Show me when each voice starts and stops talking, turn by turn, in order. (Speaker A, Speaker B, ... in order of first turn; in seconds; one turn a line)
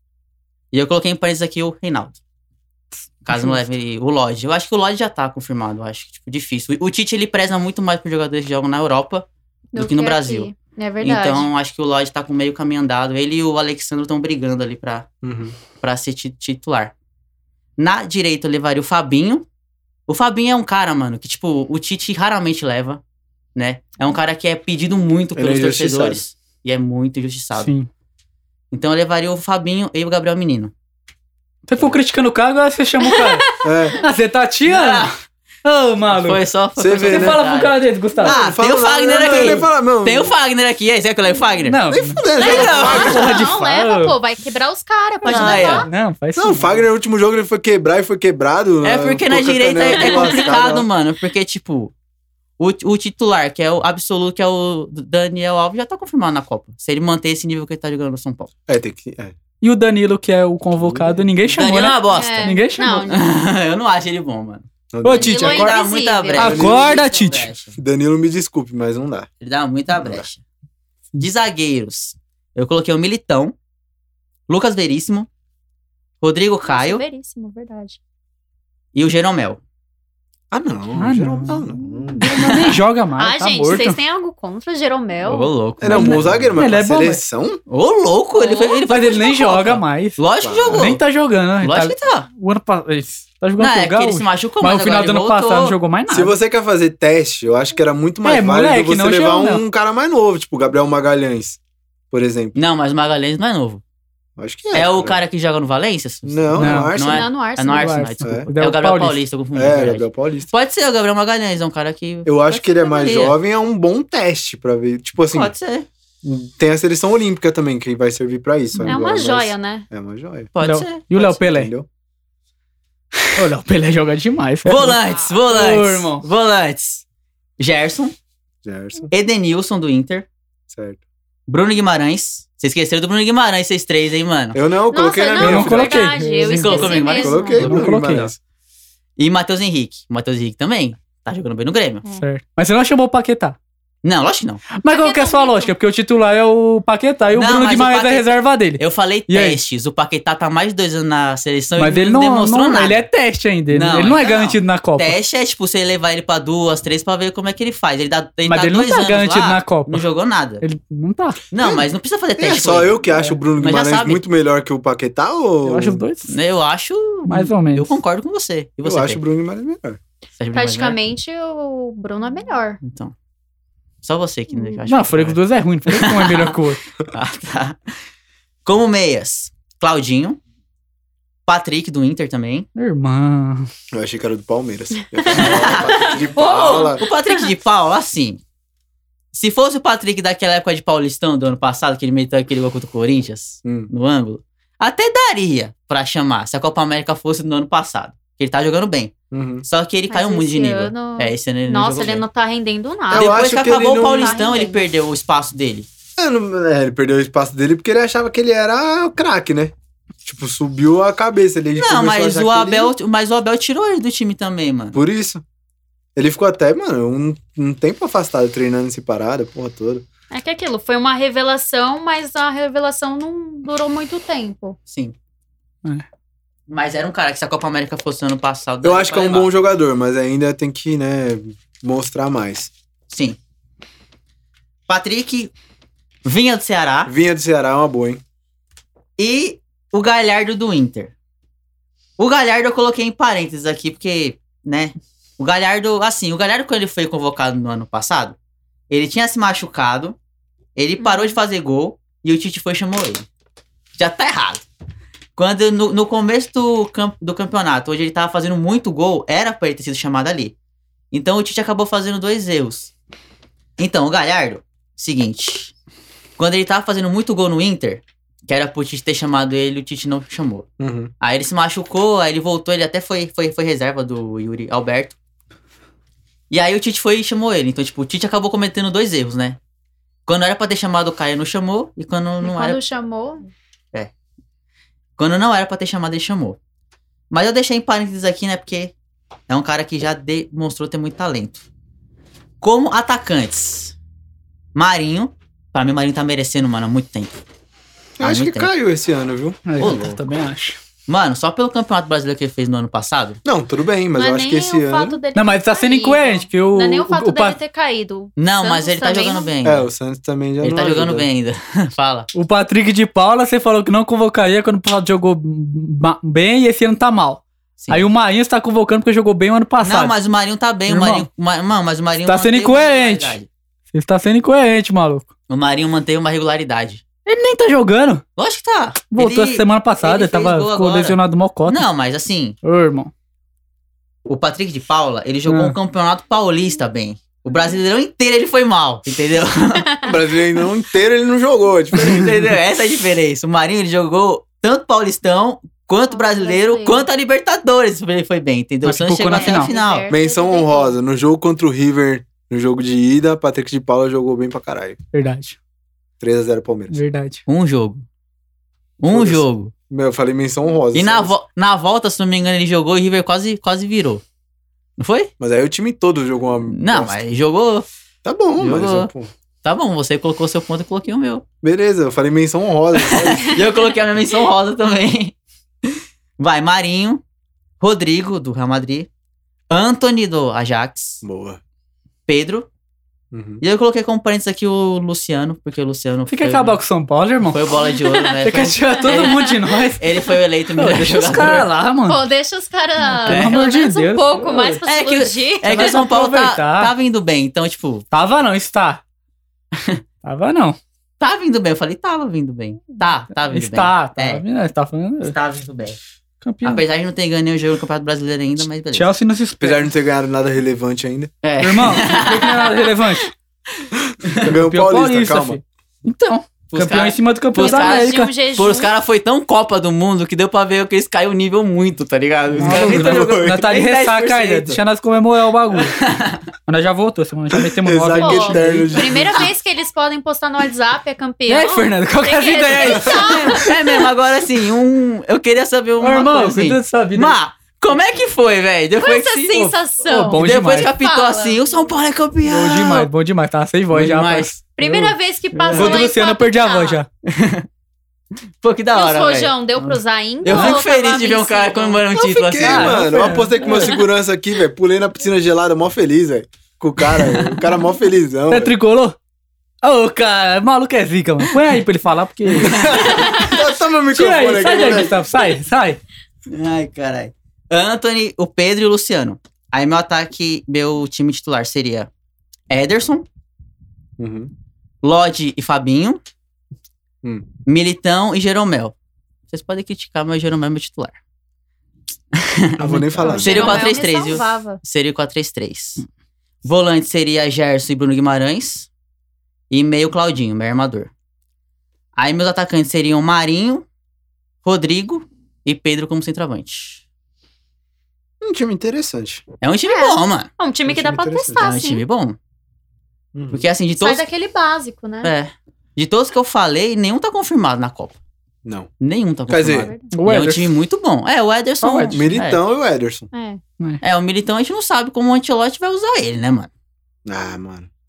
Speaker A: 0.7-2.2
Speaker A: 3.2-15.1
Speaker B: 3.3-3.6
Speaker C: 9.7-11.5
Speaker D: 15.2-15.6
Speaker A: 15.8-16.9
Speaker A: 17.8-19.4
Speaker A: 20.1-23.0
Speaker A: 23.6-27.7
Speaker D: 25.3-26.2
Speaker B: 27.6-27.9
Speaker A: 28.7-30.7
Speaker B: 31.7-36.4
Speaker C: 33.2-33.5
Speaker D: 33.6-34.0
Speaker A: 34.7-35.1
Speaker A: 36.1-41.8
Speaker D: 36.8-37.4
Speaker B: 37.0-38.4
Speaker D: 38.2-40.3
Speaker B: 39.2-39.6
Speaker B: 41.7-44.1
Speaker D: 41.9-43.5
Speaker A: 42.4-43.3
Speaker C: 42.4-45.9
Speaker A: 45.2-45.9
Speaker B: 45.3-46.8
Speaker D: 46.3-50.9
Speaker A: 48.8-51.9
Speaker C: 49.9-50.4
Speaker A: 52.6-58.5
Speaker D: 58.7-59.3
Speaker B: 59.6-63.1
Speaker D: 60.7-61.6
Speaker A: 61.5-64.7
Speaker C: 62.1-63.3
Speaker D: 64.9-65.7
Speaker B: 65.0-65.7
Speaker C: 65.1-66.6
Speaker A: 65.2-67.7
Speaker B: 66.4-67.5
Speaker D: 66.4-67.0
Speaker D: 67.7-69.3
Speaker A: 69.4-70.4
Speaker D: 69.9-70.2
Speaker A: 71.2-73.5
Speaker A: 74.5-75.3
Speaker A: 76.2-77.0
Speaker C: 76.7-78.0
Speaker A: 78.9-79.6
Speaker D: 80.5-82.3
Speaker B: 81.0-81.6
Speaker B: 82.2-84.0
Speaker C: 83.2-85.5
Speaker A: 85.2-86.6
Speaker D: 85.8-87.6
Speaker B: 85.9-87.2
Speaker A: 87.7-91.0
Speaker C: 88.4-88.8
Speaker B: 88.9-90.2
Speaker D: 90.4-91.0
Speaker B: 90.7-96.3
Speaker A: 91.6-92.3
Speaker A: 93.6-95.8
Speaker D: 96.1-101.6
Speaker B: 98.2-99.6
Speaker D: 102.1-102.5
Speaker A: 102.5-103.8
Speaker D: 104.4-105.2
Speaker A: 104.7-113.3
Speaker D: 106.2-107.3
Speaker B: 106.5-106.9
Speaker C: 107.0-108.0
Speaker B: 107.7-109.2
Speaker D: 108.2-108.5
Speaker D: 109.5-110.5
Speaker D: 112.2-115.5
Speaker A: 115.3-115.9
Speaker D: 116.2-120.5
Speaker B: 118.7-119.0
Speaker C: 118.8-119.8
Speaker A: 120.5-121.3
Speaker B: 120.6-121.7
Speaker D: 121.2-121.9
Speaker B: 123.3-126.2
Speaker A: 124.6-127.0
Speaker A: 127.6-128.1
Speaker D: 128.6-129.1
Speaker A: 129.1-130.3
Speaker D: 130.7-131.0
Speaker A: 131.5-134.6
Speaker D: 134.5-136.1
Speaker C: 134.9-137.8
Speaker B: 135.4-138.3
Speaker A: 136.4-137.6
Speaker D: 137.1-138.4
Speaker A: 139.2-142.0
Speaker B: 142.2-143.6
Speaker A: 144.0-144.6
Speaker B: 144.8-149.6
Speaker C: 144.8-145.7
Speaker A: 147.3-153.1
Speaker B: 151.8-155.1
Speaker A: 153.7-160.6
Speaker B: 158.4-160.0
Speaker B: 160.6-161.4
Speaker A: 161.5-163.0
Speaker D: 161.6-161.9
Speaker D: 162.4-166.0
Speaker A: 163.6-164.2
Speaker B: 165.6-166.3
Speaker A: 166.3-169.2
Speaker B: 167.3-167.9
Speaker D: 168.8-170.0
Speaker A: 170.4-171.0
Speaker C: 170.5-172.8
Speaker A: 172.8-173.1
Speaker A: 174.0-177.9
Speaker B: 174.9-176.8
Speaker A: 178.6-180.4
Speaker A: 181.5-182.7
Speaker B: 182.7-183.7
Speaker D: 183.9-187.0
Speaker C: 185.2-187.5
Speaker A: 185.3-188.4
Speaker A: 189.3-199.1
Speaker D: 193.6-193.9
Speaker D: 199.3-199.7
Speaker A: 199.6-202.2
Speaker C: 200.1-204.8
Speaker D: 203.1-204.4
Speaker A: 203.1-205.9
Speaker D: 206.2-209.7
Speaker D: 210.2-212.9
Speaker A: 211.8-215.0
Speaker D: 214.9-215.4
Speaker D: 216.2-220.0
Speaker C: 220.3-224.8
Speaker A: 224.9-225.1
Speaker A: 226.7-229.5
Speaker D: 228.8-232.7
Speaker A: 233.1-233.4
Speaker A: 234.9-235.5
Speaker A: 236.2-237.1
Speaker D: 237.1-238.2
Speaker A: 239.2-241.1
Speaker A: 242.2-248.3
Speaker A: 248.9-250.2
Speaker A: 250.8-253.2
Speaker C: 251.0-251.3
Speaker A: 254.0-254.6
Speaker A: 255.4-260.5
Speaker A: 261.1-262.9
Speaker A: 263.8-265.7
Speaker A: 266.4-270.6
Speaker D: 270.8-271.1
Speaker A: 271.2-275.1
Speaker A: 276.5-279.6
Speaker A: 280.3-282.8
Speaker C: 282.4-283.4
Speaker A: 285.2-286.6
Speaker A: 287.3-288.9
Speaker A: 289.5-291.6
Speaker A: 292.6-293.9
Speaker A: 294.7-297.4
Speaker D: 298.2-300.2
Speaker A: 298.2-298.7
Speaker B: 299.7-300.8
Speaker A: 299.8-300.1
Speaker A: 301.1-303.4
Speaker D: 303.4-305.2
Speaker C: 304.1-309.5
Speaker B: 305.3-307.6
Speaker A: 308.4-309.9
Speaker D: 309.6-311.3
Speaker A: 310.6-312.3
Speaker B: 312.3-320.1
Speaker A: 317.8-318.1
Speaker A: 319.8-323.5
Speaker B: 320.9-321.3
Speaker B: 322.2-323.4
Speaker B: 323.9-325.3
Speaker A: 325.5-327.0
Speaker B: 327.2-328.2
Speaker A: 328.4-332.6
Speaker B: 329.1-331.8
Speaker B: 332.6-333.1
Speaker A: 334.2-340.0
Speaker B: 335.5-335.7
Speaker D: 340.1-342.6
Speaker A: 341.9-350.1
Speaker C: 346.1-347.1
Speaker B: 348.8-349.7
Speaker C: 349.3-351.0
Speaker D: 350.1-355.0
Speaker B: 355.1-355.6
Speaker D: 356.2-357.0
Speaker B: 356.9-357.4
Speaker A: 357.4-358.0
Speaker A: 359.0-359.7
Speaker D: 359.1-361.3
Speaker A: 360.9-364.2
Speaker A: 365.0-365.3
Speaker D: 365.4-367.2
Speaker A: 366.7-367.9
Speaker D: 368.2-369.3
Speaker A: 368.6-369.1
Speaker A: 369.6-371.4
Speaker D: 371.6-373.6
Speaker A: 373.0-377.2
Speaker A: 377.8-379.1
Speaker A: 379.7-381.2
Speaker D: 381.2-381.6
Speaker A: 382.3-382.7
Speaker D: 383.3-383.6
Speaker A: 383.6-386.8
Speaker B: 386.3-387.9
Speaker A: 387.4-391.7
Speaker C: 388.0-388.3
Speaker B: 388.4-392.2
Speaker C: 392.1-396.0
Speaker B: 393.1-394.8
Speaker A: 393.3-393.6
Speaker A: 394.8-398.1
Speaker B: 395.7-396.9
Speaker B: 398.1-399.0
Speaker A: 399.7-400.0
Speaker B: 400.2-400.8
Speaker A: 401.2-404.4
Speaker B: 403.5-405.4
Speaker A: 405.2-406.0
Speaker B: 406.4-406.8
Speaker A: 406.6-409.1
Speaker B: 408.9-409.9
Speaker D: 409.6-411.3
Speaker A: 411.4-412.9
Speaker B: 411.6-413.3
Speaker D: 413.9-415.6
Speaker A: 414.2-414.5
Speaker B: 414.4-418.3
Speaker A: 416.7-424.8
Speaker C: 417.6-418.9
Speaker D: 422.5-423.8
Speaker B: 422.6-425.9
Speaker A: 425.7-426.5
Speaker B: 426.7-429.0
Speaker D: 427.5-429.4
Speaker C: 428.1-433.7
Speaker B: 431.5-433.8
Speaker A: 432.7-439.8
Speaker B: 436.0-437.3
Speaker C: 439.0-441.6
Speaker B: 440.0-440.9
Speaker A: 440.3-443.1
Speaker B: 442.4-445.0
Speaker A: 443.9-444.5
Speaker C: 444.8-447.0
Speaker B: 445.7-447.1
Speaker A: 447.2-447.7
Speaker A: 448.6-449.5
Speaker C: 448.9-452.0
Speaker A: 450.4-453.1
Speaker B: 450.5-450.8
Speaker D: 452.1-458.7
Speaker B: 452.6-454.0
Speaker B: 458.5-459.1
Speaker B: 459.8-462.9
Speaker D: 462.6-465.2
Speaker A: 462.6-463.2
Speaker B: 464.1-466.0
Speaker A: 466.5-472.1
Speaker A: 472.7-473.2
Speaker D: 474.2-474.5
Speaker A: 475.0-476.2
Speaker A: 477.6-478.9
Speaker A: 479.5-481.2
Speaker A: 482.3-482.8
Speaker D: 482.8-483.9
Speaker B: 482.8-483.8
Speaker C: 483.2-484.8
Speaker A: 483.4-486.0
Speaker A: 486.6-488.9
Speaker A: 489.7-491.1
Speaker A: 492.2-493.8
Speaker A: 494.6-497.0
Speaker D: 498.4-499.4
Speaker A: 499.6-500.5
Speaker C: 499.9-502.0
Speaker D: 500.9-501.7
Speaker A: 501.6-502.4
Speaker D: 503.3-503.6
Speaker A: 503.5-504.2
Speaker C: 504.0-505.3
Speaker A: 505.2-508.1
Speaker D: 508.6-508.9
Speaker A: 509.0-512.6
Speaker D: 509.5-509.9
Speaker C: 509.8-510.1
Speaker B: 510.1-510.7
Speaker B: 511.8-512.3
Speaker D: 512.1-513.3
Speaker C: 513.3-513.6
Speaker A: 514.0-516.7
Speaker D: 517.2-517.9